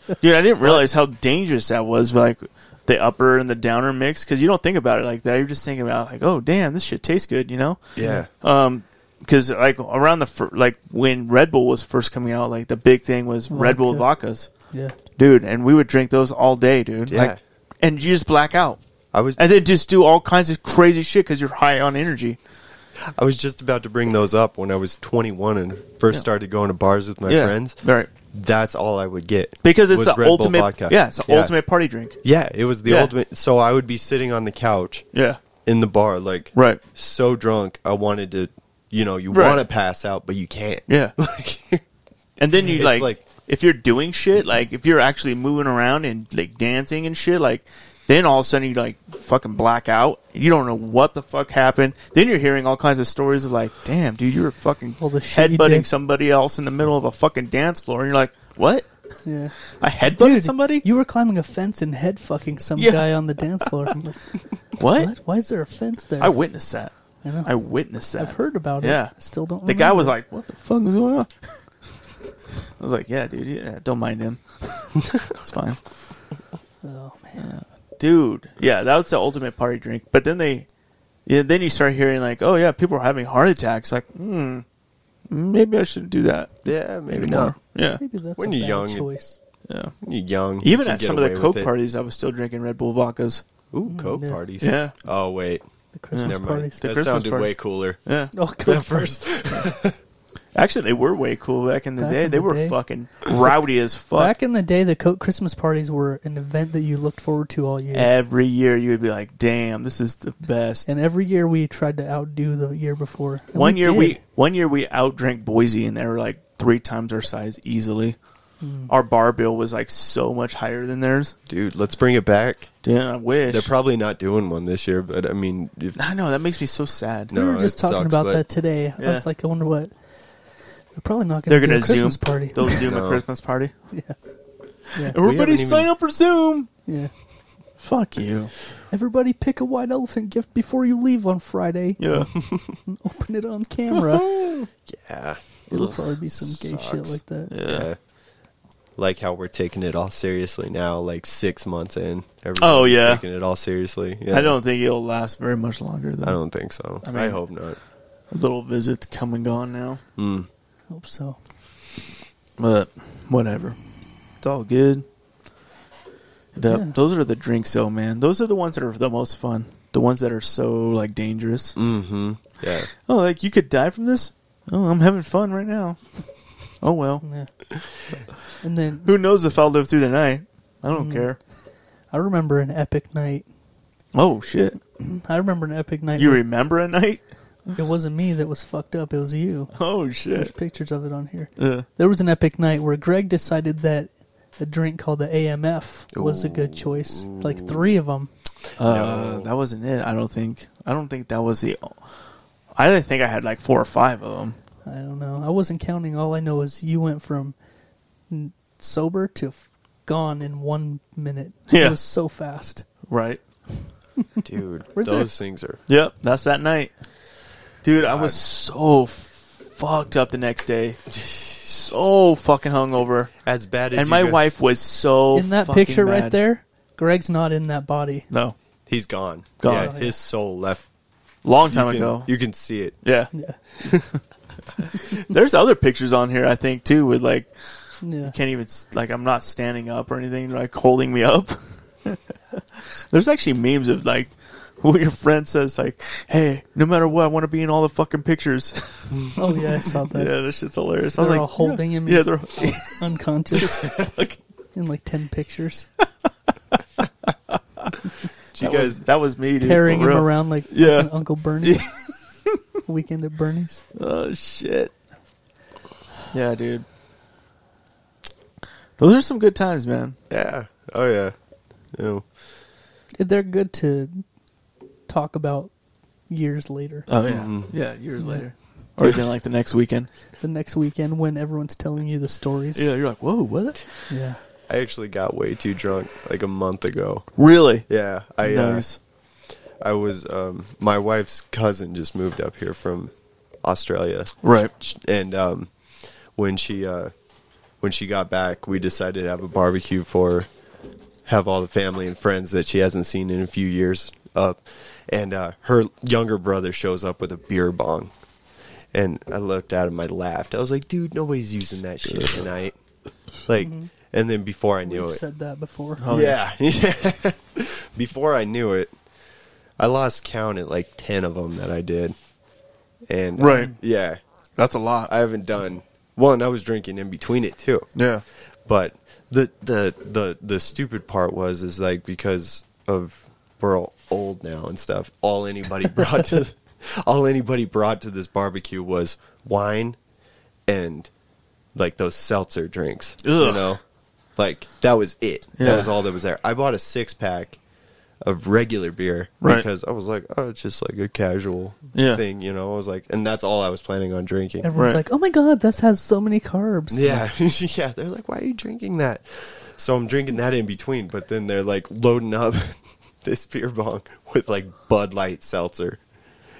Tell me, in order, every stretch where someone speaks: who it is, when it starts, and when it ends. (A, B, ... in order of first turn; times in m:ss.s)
0:00.2-0:14.5 A
0:08.0-0:08.3 B
0:08.0-0:08.2 C
0:13.5-0:14.1 C
0:15.2-0:18.8 A
0:17.1-0:17.4 B
0:19.1-0:19.4 B
0:19.4-0:22.4 A
0:23.1-0:27.8 B
0:27.3-0:28.1 A
0:28.3-0:31.5 B
0:29.6-0:32.2 A
0:32.2-0:35.0 B
0:32.9-0:33.1 A
0:35.1-0:35.4 A
0:35.6-0:41.8 B
0:36.5-0:36.8 A
0:39.3-0:39.6 A
0:40.9-0:41.1 A
0:42.4-0:59.1 A
0:42.6-0:43.2 B
0:55.0-0:55.9 C
0:59.2-1:04.2 C
0:59.8-1:00.8 A
1:02.8-1:03.9 A
1:04.8-1:05.1 A
1:04.8-1:06.4 C
1:06.2-1:11.6 A
1:07.2-1:07.5 C
1:08.2-1:10.2 C
1:12.8-1:15.8 A
1:16.8-1:17.5 C
1:17.4-1:20.7 A
1:21.3-1:24.6 A
1:25.3-1:28.0 A
1:26.6-1:27.6 B
1:28.0-1:29.4 C
1:28.4-1:29.1 B
1:29.7-1:29.9 A
1:30.0-1:31.7 B
1:30.6-1:33.4 A
1:33.7-1:38.0 B
1:33.9-1:34.4 C
1:34.6-1:35.0 A
1:35.9-1:36.8 C
1:36.1-1:38.3 A
1:38.3-1:39.2 C
1:38.6-1:40.0 B
1:40.6-1:44.3 A
1:42.0-1:42.8 C
1:44.2-1:48.1 C
1:47.9-1:50.9 A
1:50.9-1:54.2 C
1:53.6-1:58.2 A
1:58.6-1:58.9 C
1:58.9-2:01.3 A
2:01.5-2:02.7 B
2:02.8-2:03.7 A
2:03.5-2:06.0 B
2:06.0-2:07.3 A
2:07.3-2:08.4 B
2:07.3-2:09.9 C
2:09.0-2:09.2 A
2:11.0-2:12.8 C
2:11.5-2:13.7 A
2:12.8-2:13.2 B
2:13.9-2:14.2 C
2:15.0-2:16.7 A
2:15.2-2:15.9 B
2:17.8-2:18.5 A
2:18.9-2:22.3 C
2:22.0-2:22.3 A
2:22.8-2:24.5 C
2:23.9-2:24.7 A
2:24.9-2:28.0 B
2:25.7-2:27.5 C
2:27.5-2:27.9 A
2:29.0-2:34.6 B
2:32.6-2:33.2 A
2:34.3-2:36.4 A
2:36.2-2:37.8 B
2:37.0-2:37.4 A
2:38.3-2:40.0 A
2:40.2-2:40.5 B
2:40.9-2:41.4 C
2:42.6-2:43.8 A
2:44.4-2:45.0 A
2:46.6-2:51.8 A
2:46.6-2:47.0 C
2:51.8-2:52.9 B
2:53.1-2:56.0 A
2:56.8-2:57.2 A
2:57.2-2:57.5 C
2:58.6-2:59.1 C
2:59.0-3:01.4 A
3:00.9-3:01.3 C
3:02.1-3:03.5 C
3:04.1-3:04.8 A
3:05.0-3:06.4 C
3:06.2-3:07.2 A
3:07.7-3:09.7 C
3:09.7-3:10.5 A
3:10.3-3:18.3 C
3:11.6-3:11.9 A
3:16.1-3:17.9 B
3:18.8-3:19.5 B
3:18.8-3:22.0 A
3:22.8-3:24.6 A
3:24.9-3:27.6 C
3:28.3-3:32.8 C
3:31.7-3:32.0 A
3:33.1-3:33.4 A
3:34.4-3:35.8 B
3:35.0-3:35.3 C
3:35.9-3:36.9 A
3:37.8-3:43.3 A
3:38.0-3:38.4 B
3:41.2-3:41.7 B
3:43.4-3:44.5 B
3:43.9-3:46.4 A
3:45.3-3:48.3 C
3:48.3-3:48.6 A
3:48.9-3:50.8 B
3:49.6-3:50.0 A
3:49.7-3:50.1 C
3:51.4-3:52.3 A
3:51.6-3:53.0 B
3:53.0-3:53.3 A
3:53.8-3:54.1 B
3:55.1-3:57.5 A
3:58.0-3:58.3 C
3:58.2-4:13.0 A
4:09.4-4:10.3 C
4:11.2-4:13.9 C
4:13.5-4:14.4 A
4:14.7-4:15.9 C
4:17.5-4:17.9 A
4:18.6-4:19.0 B
4:18.6-4:22.6 A
4:19.6-4:21.9 C
4:22.9-4:23.8 C
4:24.0-4:24.9 A
4:26.3-4:26.9 A
4:29.0-4:30.2 A
4:30.3-4:31.3 B
4:31.9-4:32.2 B
4:33.2-4:34.2 C
4:35.1-4:35.7 C
4:36.3-4:37.1 C
4:37.1-4:40.1 A
4:37.2-4:37.8 B
4:38.2-4:38.5 C
4:40.4-4:42.9 C
4:42.8-4:44.1 A
4:44.1-4:44.4 C
4:44.7-4:47.3 B
4:47.4-4:49.0 A
4:47.8-4:48.9 B
4:49.8-4:55.7 B
4:54.4-4:54.7 A
4:56.4-4:57.1 B
4:57.8-5:00.5 B
5:01.3-5:08.1 B
5:08.9-5:12.8 B
5:13.4-5:15.2 B
5:13.6-5:13.9 C
5:14.8-5:16.1 C
5:16.0-5:16.4 A
5:16.1-5:18.9 B
5:19.8-5:22.2 B
5:23.1-5:24.2 B
5:23.4-5:23.8 A
5:24.6-5:25.1 A
5:25.1-5:27.9 B
5:28.0-5:28.2 A
5:28.7-5:40.0 B
5:40.7-5:41.1 B
5:41.8-5:43.8 B
5:43.2-5:43.7 A
5:44.4-5:47.6 B
5:45.6-5:45.9 A
5:48.2-5:54.7 B
5:51.9-5:52.2 A
5:54.6-5:57.3 C
5:54.7-5:55.0 A
5:56.9-6:06.0 B